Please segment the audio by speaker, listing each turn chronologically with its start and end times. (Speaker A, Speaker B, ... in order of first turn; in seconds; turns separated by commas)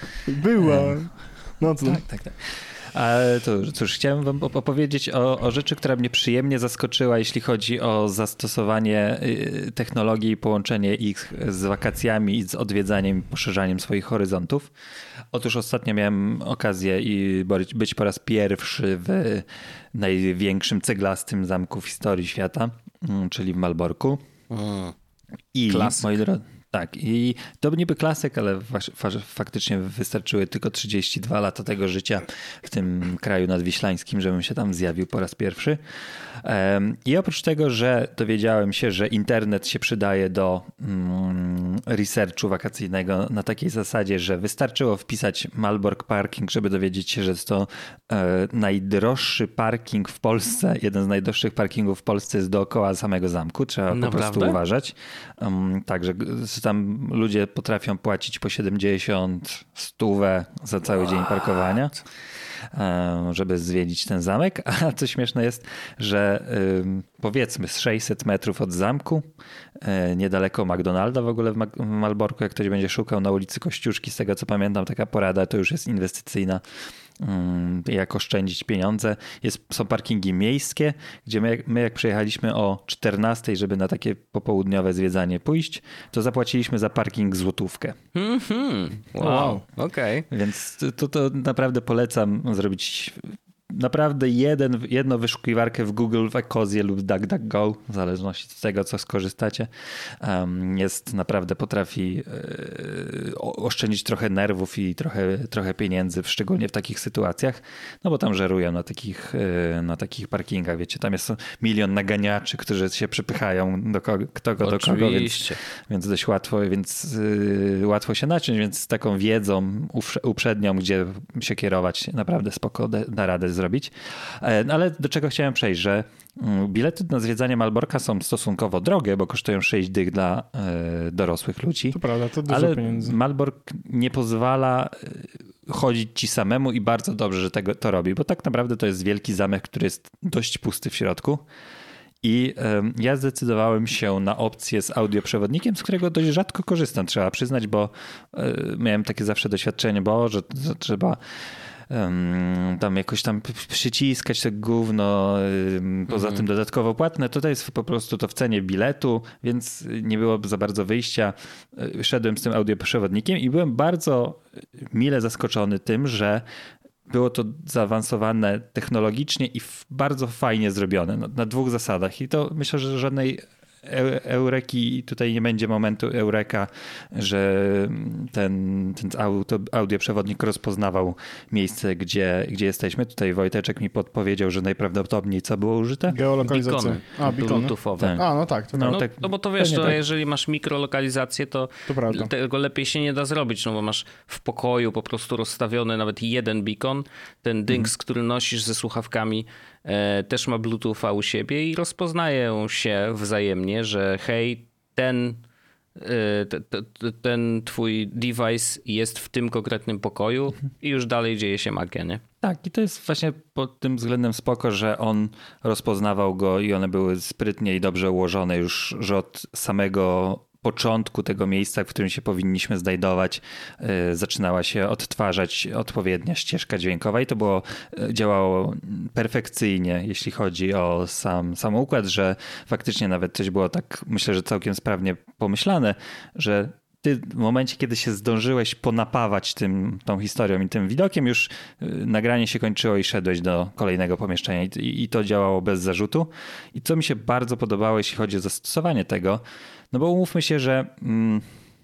Speaker A: 0.3-2.0, Speaker B: 0.6-1.0, Speaker B: 1.8-14.7, Speaker B: 15.3-24.2, Speaker C: 24.5-24.9, Speaker B: 25.5-35.8, Speaker C: 25.7-26.1, Speaker B: 36.4-62.0, Speaker C: 53.9-54.6, Speaker B: 62.7-69.2, Speaker B: 69.8-76.6, Speaker B: 77.2-88.0, Speaker C: 88.2-90.3, Speaker A: 89.2-89.6, Speaker B: 90.3-141.4, Speaker C: 114.6-115.6, Speaker A: 131.9-133.2, Speaker B: 142.2-166.5, Speaker C: 156.1-156.4, Speaker B: 167.1-186.2, Speaker A: 186.1-189.0, Speaker C: 186.5-188.3, Speaker B: 188.0-190.0, Speaker C: 188.9-205.4, Speaker A: 191.9-192.3, Speaker C: 206.0-212.2, Speaker B: 212.4-251.5